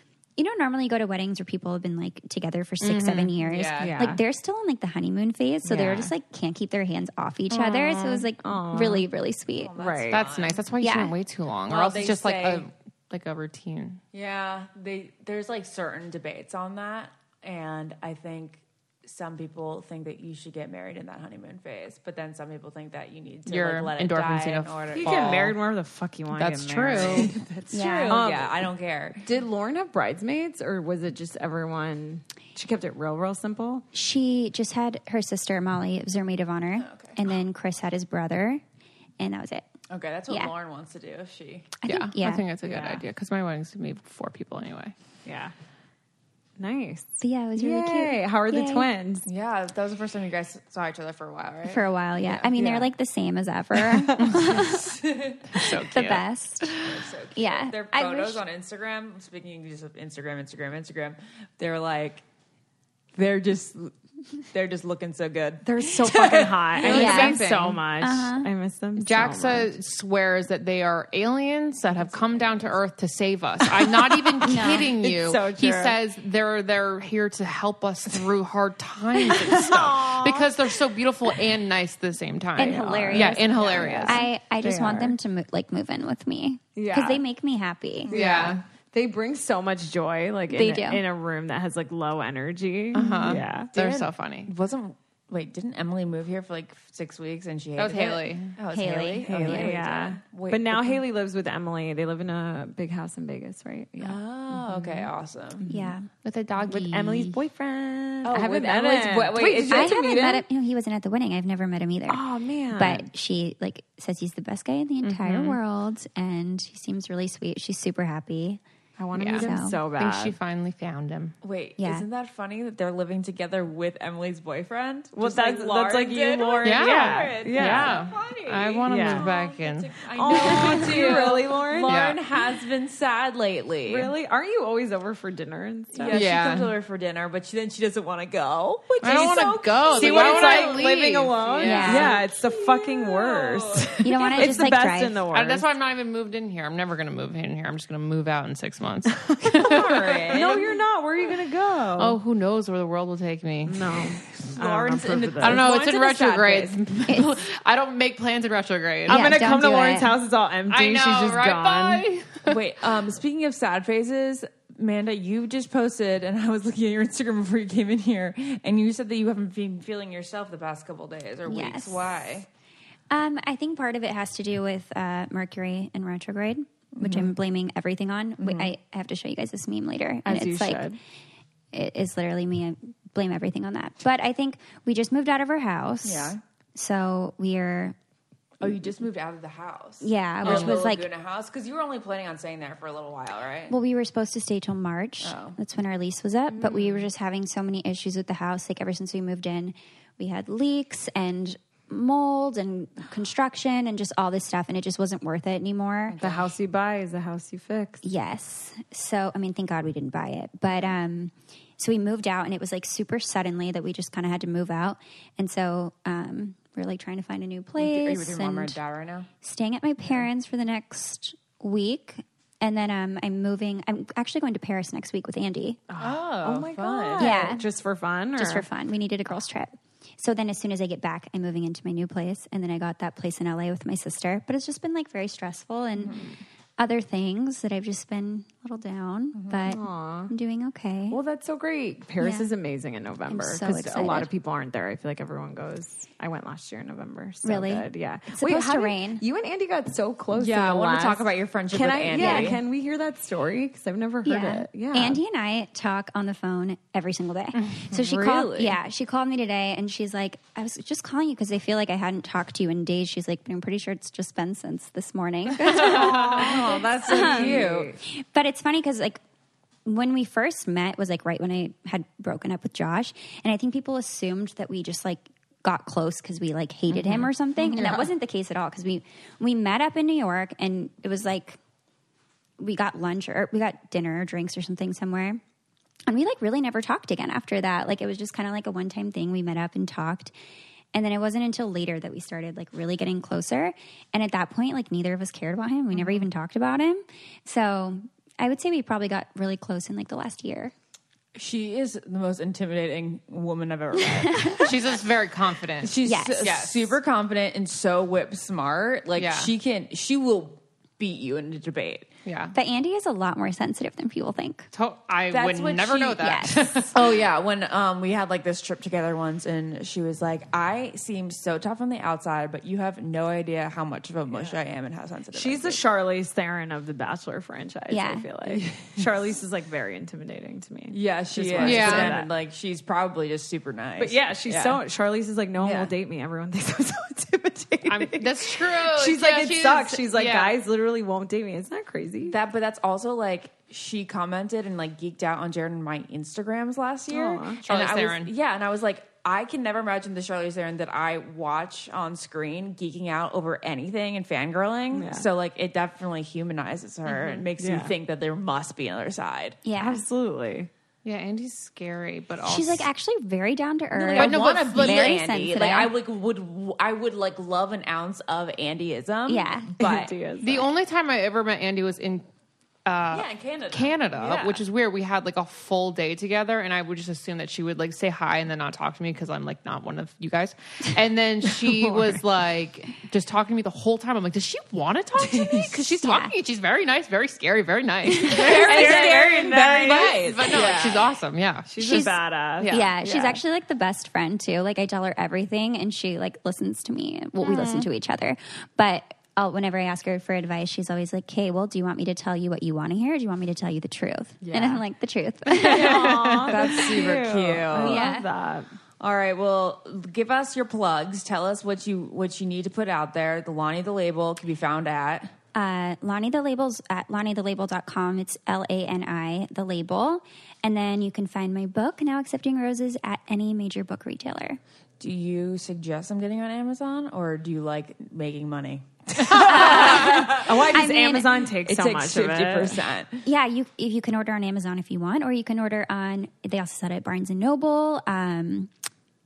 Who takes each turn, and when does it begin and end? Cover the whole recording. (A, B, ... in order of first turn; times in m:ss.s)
0:00.4-0:09.7 A
0:02.8-0:03.3 B
0:03.4-0:04.1 C
0:03.8-0:04.2 D
0:05.6-0:06.1 D
0:07.5-0:09.1 D
0:09.5-0:10.7 C
0:09.8-0:10.3 D
0:10.1-0:14.0 B
0:10.8-0:11.1 A
0:11.7-0:12.7 C
0:14.1-0:25.5 C
0:23.5-0:25.6 B
0:24.9-0:27.4 D
0:26.3-0:27.3 B
0:26.9-0:29.2 C
0:27.7-0:28.2 A
0:28.1-0:28.6 D
0:29.2-0:33.9 D
0:33.9-0:38.6 A
0:36.8-0:37.2 C
0:39.2-0:39.7 A
0:39.9-0:41.7 C
0:41.8-0:42.5 A
0:41.9-0:44.9 B
0:42.7-0:43.0 D
0:45.3-0:45.5 D
0:46.6-0:49.3 D
0:47.2-0:48.9 A
0:49.3-0:52.5 C
0:51.7-0:55.0 A
0:52.5-0:52.9 D
0:53.8-0:54.5 D
0:54.4-0:55.5 C
0:55.5-0:56.8 A
0:55.5-0:56.8 B
0:56.7-1:02.2 C
0:57.4-0:58.4 A
1:03.1-1:04.0 C
1:04.5-1:07.2 C
1:05.6-1:09.7 D
1:06.8-1:07.8 B
1:06.9-1:07.4 A
1:08.0-1:08.5 A
1:09.0-1:24.2 B
1:12.0-1:12.8 C
1:13.6-1:16.0 D
1:14.4-1:14.9 A
1:19.2-1:20.6 D
1:22.6-1:23.5 A
1:22.6-1:25.2 D
1:23.5-1:24.2 C
1:24.1-1:28.1 A
1:26.8-1:27.2 D
1:28.1-1:28.6 C
1:28.1-1:28.6 B
1:28.3-1:34.1 D
1:30.5-1:31.0 A
1:32.9-1:34.5 B
1:33.1-1:33.4 C
1:34.5-1:41.0 C
1:37.8-1:38.6 B
1:38.7-1:39.8 A
1:39.2-1:44.2 D
1:44.0-1:45.6 C
1:44.8-1:45.1 B
1:45.6-1:46.0 D
1:45.7-1:46.1 A
1:46.2-1:47.4 B
1:46.6-1:50.4 D
1:48.2-1:50.0 C
1:49.7-1:52.2 A
1:52.1-1:53.1 D
1:52.7-1:58.6 A
1:55.0-1:55.6 B
1:59.0-2:00.4 D
1:59.2-2:01.4 B
1:59.3-1:59.8 A
2:01.4-2:14.1 C
2:01.8-2:02.1 A
2:05.2-2:08.0 D
2:06.6-2:10.0 B
2:08.9-2:09.3 D
2:10.1-2:12.0 D
2:11.9-2:12.2 B
2:13.8-2:16.2 D
2:15.9-2:24.7 C
2:16.1-2:16.7 B
2:19.0-2:22.0 B
2:19.2-2:25.7 D
2:21.6-2:22.2 A
2:24.0-2:25.2 A
2:25.3-2:30.6 B
2:29.2-2:32.2 D
2:29.5-2:30.8 C
2:32.0-2:34.0 B
2:33.7-2:35.7 D
2:34.4-2:36.8 C
2:35.4-2:39.4 B
2:39.1-2:42.0 D
2:39.1-2:40.2 A
2:40.7-2:42.6 B
2:42.4-2:52.5 C
2:51.5-2:52.2 A
2:53.1-3:00.9 A
2:57.0-2:57.3 C
2:58.4-2:58.7 C
3:00.3-3:01.0 D
3:01.7-3:08.0 A
3:06.0-3:06.4 C
3:08.6-3:13.7 C
3:10.0-3:11.1 A
3:10.4-3:10.7 B
3:13.7-3:26.2 A
3:15.2-3:15.6 C
3:16.6-3:16.9 D
3:26.2-3:26.5 C
3:26.2-3:28.0 D
3:28.0-3:38.8 A
3:37.8-3:39.3 C
3:39.4-3:45.8 A
3:40.0-3:40.3 C
3:45.9-3:48.7 D
3:46.0-3:47.5 C
3:47.2-3:47.7 A
3:48.4-3:56.2 A
3:56.0-3:56.3 C
3:56.8-4:01.2 A
3:59.4-3:59.7 C
3:59.7-4:00.3 D
4:01.1-4:15.2 D
4:02.2-4:02.5 A
4:03.3-4:04.3 A
4:07.4-4:09.2 A
4:10.3-4:12.6 C
4:12.1-4:12.6 A
4:14.2-4:26.5 A
4:17.9-4:18.7 D
4:18.3-4:18.7 C
4:25.7-4:27.9 C
4:25.8-4:28.0 D
4:27.0-4:29.2 A
4:29.8-4:41.6 A
4:36.9-4:37.9 D
4:42.6-4:45.4 A
4:46.1-4:50.3 A
4:50.9-5:00.7 A
4:56.0-4:56.2 C
5:01.4-5:05.0 C
5:04.0-5:04.7 A
5:04.6-5:07.0 B
5:05.8-5:12.1 C
5:06.0-5:06.5 A
5:09.2-5:09.5 B
5:12.2-5:12.6 B
5:12.5-5:14.7 A
5:14.7-5:17.1 B
5:15.3-5:16.2 C
5:16.2-5:16.8 A
5:16.9-5:25.8 C
5:25.3-5:32.3 D
5:27.9-5:28.3 A
5:30.9-5:34.8 C
5:31.6-5:32.2 B
5:34.0-5:42.4 D
5:35.6-5:35.9 C
5:37.9-5:40.6 B
5:42.3-5:59.6 C
5:47.1-5:48.3 B
5:47.2-5:47.6 D
5:54.9-5:55.3 D
5:57.1-5:57.5 B
5:57.6-5:57.9 D
5:59.6-6:00.0 A
5:59.8-6:00.7 D
6:01.0-6:02.9 B
6:02.4-6:05.9 A
6:03.9-6:10.1 C
6:04.2-6:05.2 B
6:09.3-6:09.8 A
6:09.8-6:10.7 D
6:10.4-6:12.2 B
6:12.9-6:32.9 B
6:13.1-6:14.6 C
6:25.3-6:25.8 C
6:26.0-6:26.3 A
6:28.2-6:31.1 C
6:28.2-6:30.8 D
6:31.7-6:33.4 D
6:31.8-6:46.1 A
6:37.4-6:37.9 C
6:45.5-6:48.7 D
6:45.6-6:48.1 C
6:47.8-6:48.3 A
6:49.0-6:55.3 C
6:55.5-7:04.6 A
7:05.0-7:10.8 C
7:09.4-7:11.5 A
7:09.4-7:12.8 D
7:11.6-7:13.3 C
7:13.2-7:18.7 A